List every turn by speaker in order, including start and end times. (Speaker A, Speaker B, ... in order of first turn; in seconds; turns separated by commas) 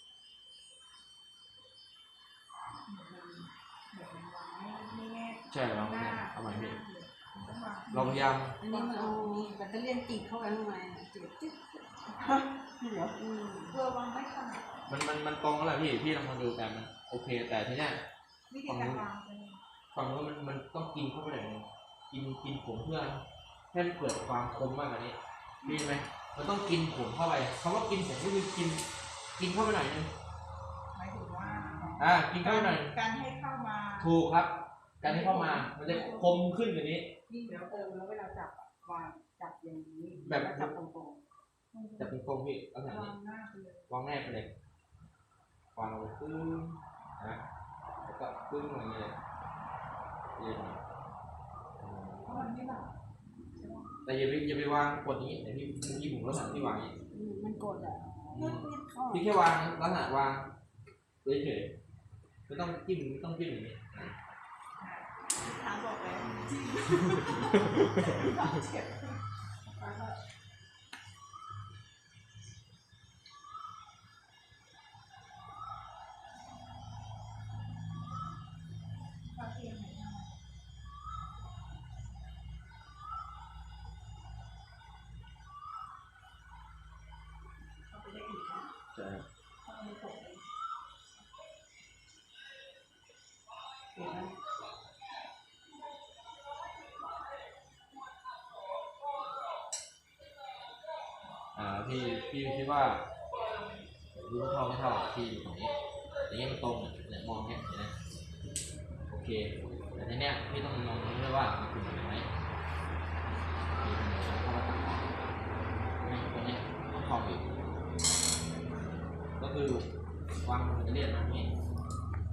Speaker A: 2.9-9.6, Speaker B: 5.5-6.8, Speaker B: 7.9-8.6, Speaker C: 8.6-13.7, Speaker A: 13.7-14.8, Speaker B: 14.9-18.0, Speaker A: 18.5-19.6, Speaker B: 18.6-19.0, Speaker B: 19.9-28.8, Speaker B: 29.4-30.1, Speaker A: 30.9-34.1, Speaker C: 31.4-31.9, Speaker B: 32.0-32.9, Speaker B: 34.0-37.1, Speaker A: 35.0-36.3, Speaker A: 37.3-37.9, Speaker C: 37.3-41.2, Speaker B: 40.1-40.8, Speaker A: 41.7-42.1, Speaker B: 42.0-43.1, Speaker A: 42.8-43.8, Speaker B: 43.9-44.5, Speaker B: 45.7-47.4, Speaker B: 48.0-49.1, Speaker B: 50.4-50.8, Speaker B: 51.8-52.5, Speaker A: 52.2-52.9, Speaker A: 53.5-53.9, Speaker B: 54.0-56.9, Speaker C: 57.1-59.2, Speaker B: 58.3-60.5, Speaker B: 61.2-61.7, Speaker B: 62.5-64.2, Speaker A: 64.8-69.2, Speaker A: 69.8-70.1, Speaker A: 79.3-80.3, Speaker C: 88.2-88.6, Speaker B: 88.9-89.2, Speaker A: 89.6-90.4, Speaker C: 94.0-94.3, Speaker B: 101.5-103.0, Speaker B: 104.1-105.7, Speaker B: 106.2-107.9, Speaker B: 109.1-112.3, Speaker B: 113.8-115.1, Speaker B: 116.0-117.5, Speaker B: 119.4-119.8, Speaker B: 120.4-121.5